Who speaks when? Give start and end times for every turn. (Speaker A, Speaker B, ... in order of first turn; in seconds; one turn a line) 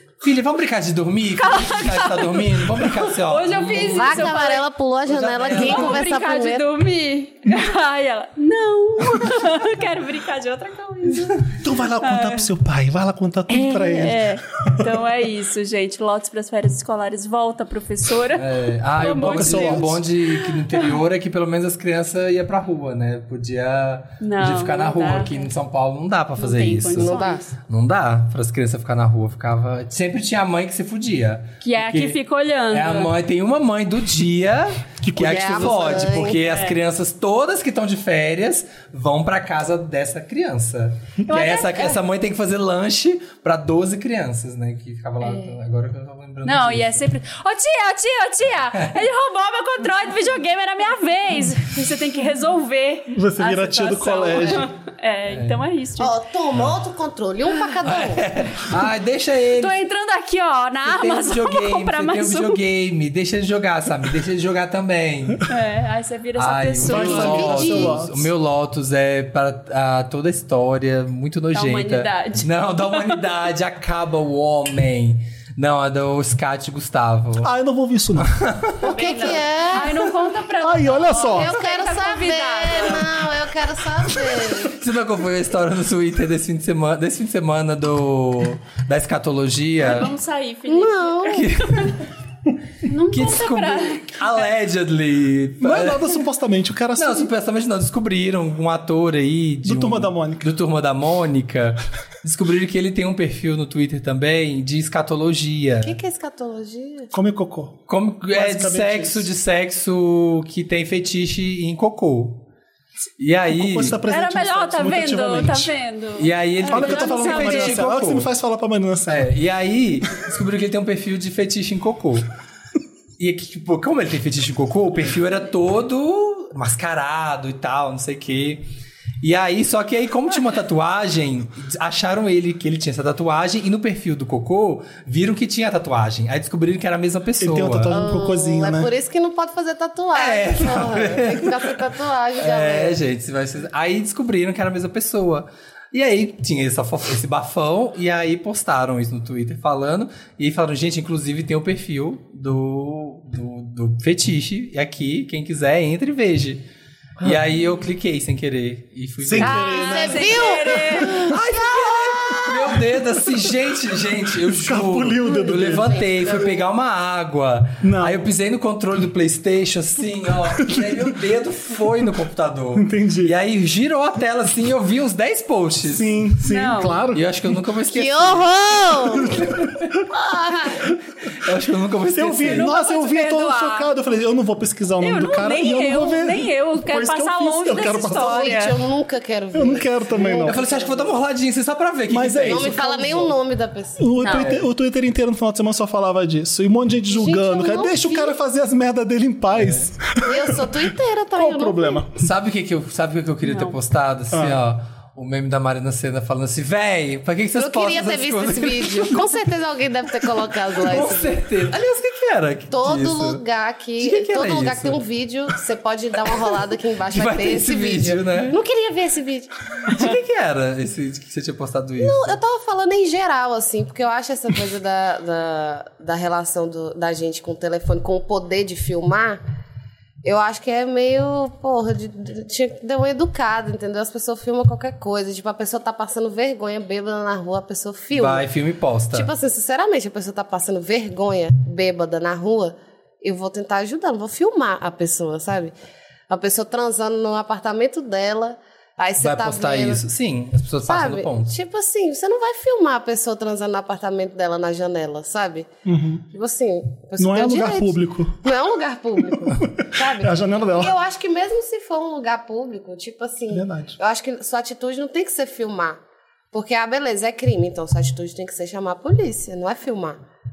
Speaker A: 0.2-4.4
Speaker B: 1.4-4.7
Speaker C: 3.8-6.7
Speaker A: 5.1-6.1
Speaker B: 5.4-12.5
Speaker D: 11.6-14.9
Speaker B: 13.5-20.9
Speaker A: 18.3-32.2
Speaker D: 19.1-20.0
Speaker B: 24.2-25.5
Speaker B: 26.4-27.6
Speaker C: 26.9-27.4
Speaker B: 31.6-33.1
Speaker A: 32.7-47.1
Speaker D: 35.0-36.2
Speaker C: 35.2-36.4
Speaker B: 36.4-36.8
Speaker B: 41.3-42.0
Speaker B: 46.5-56.2
Speaker D: 53.1-54.7
Speaker A: 55.3-55.6
Speaker C: 56.0-58.2
Speaker A: 57.8-59.8
Speaker B: 59.6-62.6
Speaker A: 60.9-65.5
Speaker B: 65.5-67.8
Speaker A: 66.4-77.5
Speaker D: 66.8-68.3
Speaker C: 67.1-68.0
Speaker B: 71.5-72.5
Speaker D: 77.4-78.4
Speaker A: 78.2-78.8
Speaker C: 78.8-80.1
Speaker B: 78.8-83.2
Speaker D: 80.6-81.5
Speaker C: 81.2-84.8
Speaker A: 84.6-90.1
Speaker B: 89.8-92.0
Speaker C: 90.7-91.5
Speaker A: 91.3-92.0
Speaker B: 92.8-94.5
Speaker A: 93.1-96.2
Speaker D: 95.6-97.3
Speaker A: 97.0-106.0
Speaker D: 99.6-100.5
Speaker C: 105.8-107.1
Speaker D: 107.1-109.3
Speaker A: 107.9-112.4
Speaker A: 113.2-114.0
Speaker D: 113.5-115.7
Speaker B: 114.1-117.8
Speaker A: 116.2-118.3
Speaker D: 116.7-119.3
Speaker A: 119.1-122.3
Speaker A: 123.2-128.6
Speaker A: 129.2-138.0
Speaker D: 137.4-138.9
Speaker C: 137.9-143.0
Speaker A: 140.1-141.8
Speaker A: 142.4-156.6
Speaker A: 157.2-159.8
Speaker D: 159.2-161.4
Speaker B: 159.4-161.3
Speaker C: 159.4-162.8
Speaker A: 161.1-176.2
Speaker D: 162.1-162.8
Speaker D: 164.4-166.0
Speaker C: 165.3-166.6
Speaker D: 167.8-168.3
Speaker D: 170.6-171.1
Speaker D: 172.8-173.3
Speaker D: 175.8-177.3
Speaker B: 176.4-177.0
Speaker A: 177.1-179.9
Speaker C: 177.9-179.5
Speaker D: 179.3-179.6
Speaker C: 180.1-180.9
Speaker A: 181.3-182.7
Speaker D: 182.1-188.6
Speaker B: 182.5-183.9
Speaker B: 185.0-188.8
Speaker C: 187.9-191.2
Speaker D: 189.5-190.6
Speaker A: 190.4-192.8
Speaker D: 192.1-193.3
Speaker C: 192.4-194.2
Speaker D: 194.0-200.8
Speaker B: 194.2-194.5
Speaker A: 194.3-194.7
Speaker C: 197.1-198.4
Speaker A: 199.5-199.9
Speaker C: 200.2-202.0
Speaker D: 201.3-202.3
Speaker A: 202.2-209.3
Speaker B: 203.4-203.8
Speaker D: 204.3-204.6
Speaker C: 207.6-211.4
Speaker A: 210.8-213.4
Speaker C: 212.7-219.5
Speaker A: 214.0-215.0
Speaker A: 217.1-218.6
Speaker A: 219.8-222.4
Speaker C: 222.0-229.4
Speaker C: 230.2-238.5
Speaker A: 238.2-239.3
Speaker C: 239.1-245.7
Speaker C: 246.3-250.0
Speaker A: 249.2-251.5
Speaker C: 250.9-255.7
Speaker D: 255.8-256.2
Speaker C: 256.3-266.0
Speaker D: 257.2-258.5
Speaker D: 259.4-260.9
Speaker D: 263.5-264.0
Speaker C: 266.5-270.2